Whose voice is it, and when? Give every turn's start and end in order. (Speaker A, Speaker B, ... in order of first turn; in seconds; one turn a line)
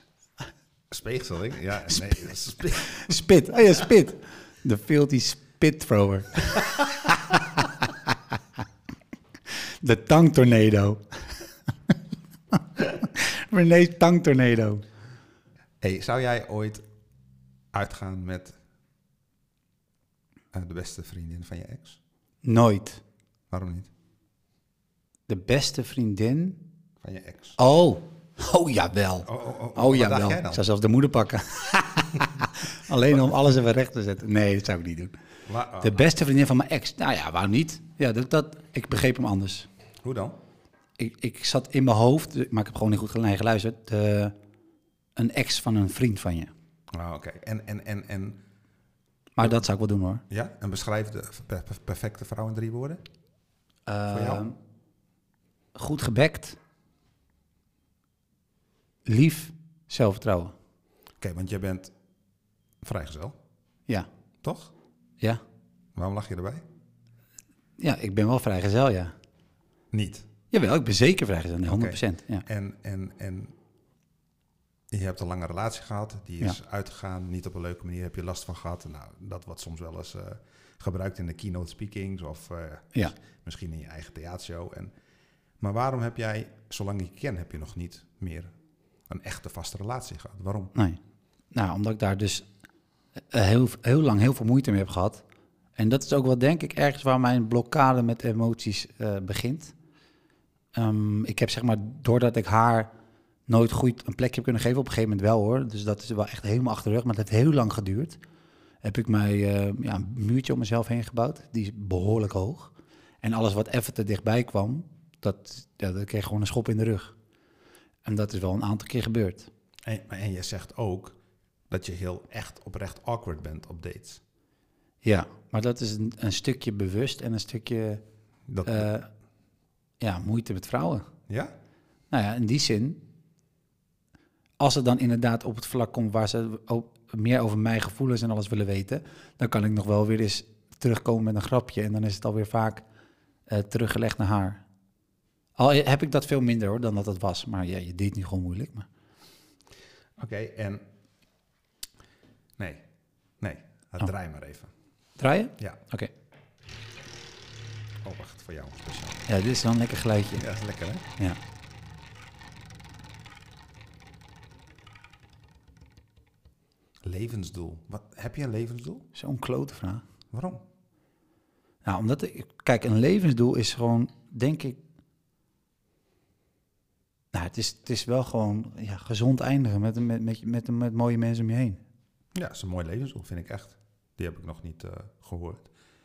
Speaker A: 0.9-3.1
Speaker B: 2.8-8.2
Speaker B: 9.5-11.4
Speaker B: 12.5-14.8
Speaker A: 15.8-16.8
Speaker A: 17.7-18.6
Speaker A: 20.5-22.0
Speaker B: 22.4-23.0
Speaker A: 23.5-23.9
Speaker B: 25.3-26.6
Speaker A: 27.0-27.6
Speaker B: 27.6-35.1
Speaker A: 29.2-30.6
Speaker A: 35.5-36.0
Speaker B: 35.8-39.7
Speaker A: 40.0-40.4
Speaker B: 41.0-44.3
Speaker B: 45.1-46.5
Speaker A: 46.9-48.4
Speaker B: 49.4-50.2
Speaker A: 50.3-53.0
Speaker B: 53.9-54.5
Speaker A: 54.1-54.5
Speaker B: 55.8-56.6
Speaker B: 59.0-60.5
Speaker A: 61.2-61.9
Speaker A: 62.8-63.4
Speaker A: 64.4-64.7
Speaker A: 65.9-66.6
Speaker B: 67.8-69.1
Speaker A: 69.9-70.2
Speaker B: 70.5-72.4
Speaker A: 71.6-73.5
Speaker A: 74.9-84.9
Speaker A: 85.6-88.5
Speaker A: 89.1-90.7
Speaker B: 91.5-92.5
Speaker B: 93.3-95.2
Speaker B: 95.8-99.7
Speaker B: 100.7-102.9
Speaker B: 103.5-108.2
Speaker B: 108.8-117.1
Speaker B: 118.0-119.5
Speaker A: 119.8-121.2
Speaker A: 121.7-124.2
Speaker B: 125.0-128.0
Speaker A: 128.5-128.9
Speaker B: 128.6-129.1
Speaker B: 130.0-131.1
Speaker A: 131.3-131.5
Speaker B: 132.1-133.0
Speaker B: 134.6-142.8
Speaker B: 143.5-144.6
Speaker B: 145.6-148.9
Speaker A: 150.2-150.8
Speaker A: 152.6-152.8
Speaker A: 153.4-154.7
Speaker B: 155.2-156.1
Speaker A: 158.0-159.2
Speaker B: 159.3-160.4
Speaker A: 160.4-161.1
Speaker A: 167.0-169.1
Speaker B: 169.1-170.0
Speaker A: 170.3-170.6
Speaker B: 171.8-174.8
Speaker B: 177.3-181.8
Speaker A: 182.3-185.7